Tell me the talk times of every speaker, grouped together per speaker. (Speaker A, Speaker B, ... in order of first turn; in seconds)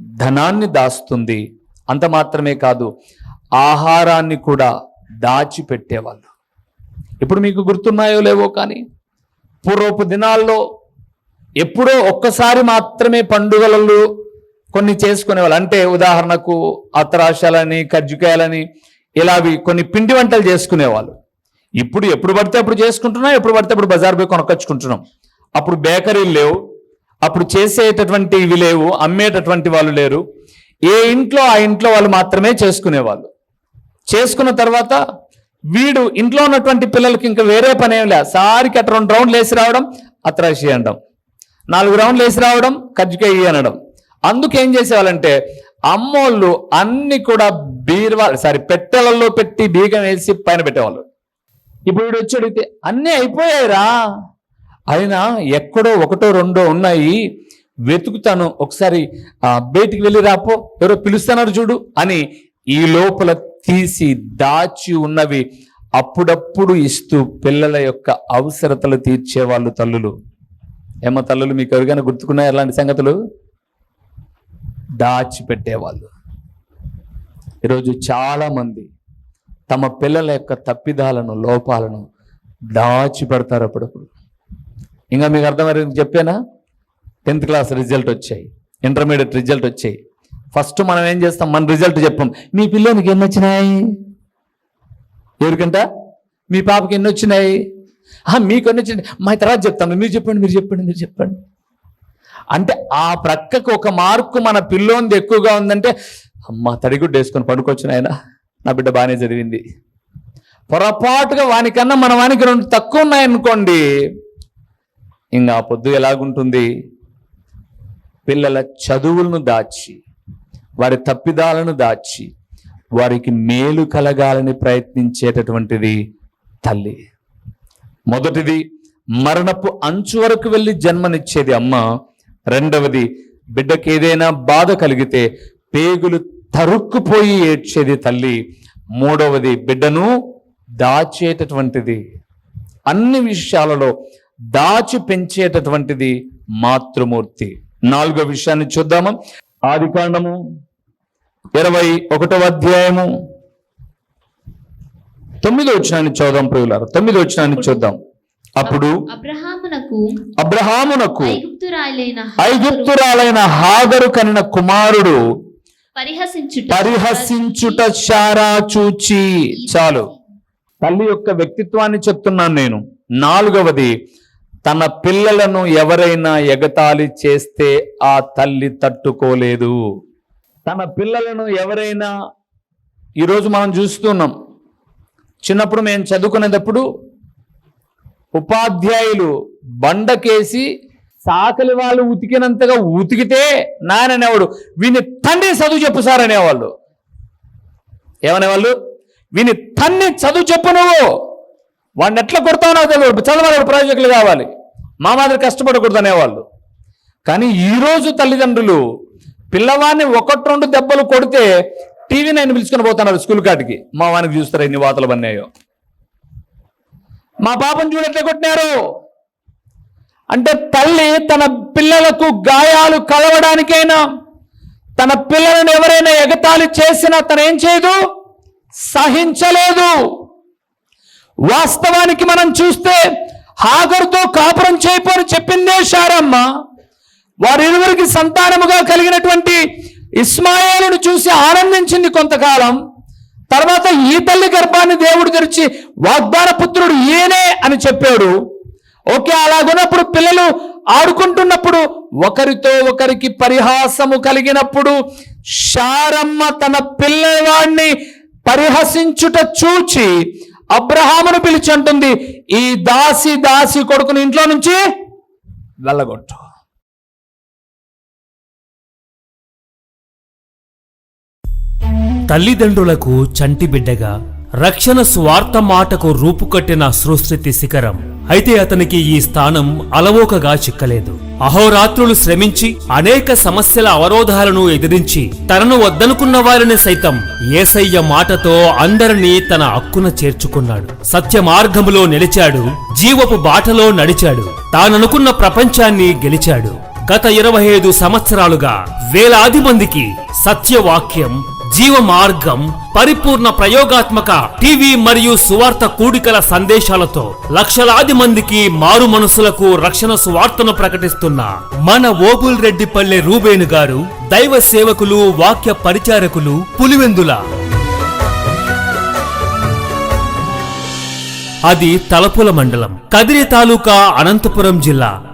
Speaker A: 0.2-2.9, 3.6-4.7, 5.2-6.3, 7.2-8.8, 9.6-10.6, 11.6-14.0, 14.7-18.6, 19.2-21.1, 21.8-25.0, 25.6-26.6, 27.2-30.2, 30.9-33.3, 34.1-35.0, 35.7-41.0, 41.7-43.8, 44.3-45.4, 45.9-51.0, 51.9-53.9, 54.9-57.2, 57.9-65.5, 66.0-70.1, 71.0-73.2, 75.0-76.1, 77.7-78.9, 79.7-82.1, 82.7-84.1, 85.1-86.4, 87.3-90.0, 90.5-93.8, 95.4-95.8, 96.5-97.5, 98.3-101.4, 102.5-105.9, 106.5-108.1, 108.6-109.6, 110.7-113.8, 115.4-116.7, 118.3-120.0, 120.8-122.3, 123.0-126.0, 126.6-127.0, 128.1-128.6, 129.2-131.8, 132.5-138.4, 139.0-140.1, 140.8-142.0, 142.9-143.9, 144.5-149.2, 149.7-150.4, 151.6-153.1, 155.4-158.0, 158.6-158.9, 160.4-161.4, 162.4-165.2, 166.7-170.1, 170.8-173.9, 174.7-179.8, 180.7-182.1, 183.2-184.3, 185.4-186.8, 188.4-190.7, 191.2-196.7, 198.2-198.8, 199.3-201.1, 202.0-204.5, 205.0-206.4, 207.3-208.8, 209.5-211.5, 212.1-215.5, 217.4-218.7, 220.3-224.0, 225.0-228.0, 228.9-229.9, 231.5-233.0, 233.6-236.5, 237.4-239.6, 240.2-242.8, 243.5-248.3, 249.1-255.0, 255.5-257.9, 258.5-260.1, 260.7-264.8, 265.8-266.4
Speaker B: 157.6-157.9, 158.7-160.0, 161.2-163.0, 166.0-168.0, 169.5-170.2
Speaker C: 272.3-317.4, 321.7-325.1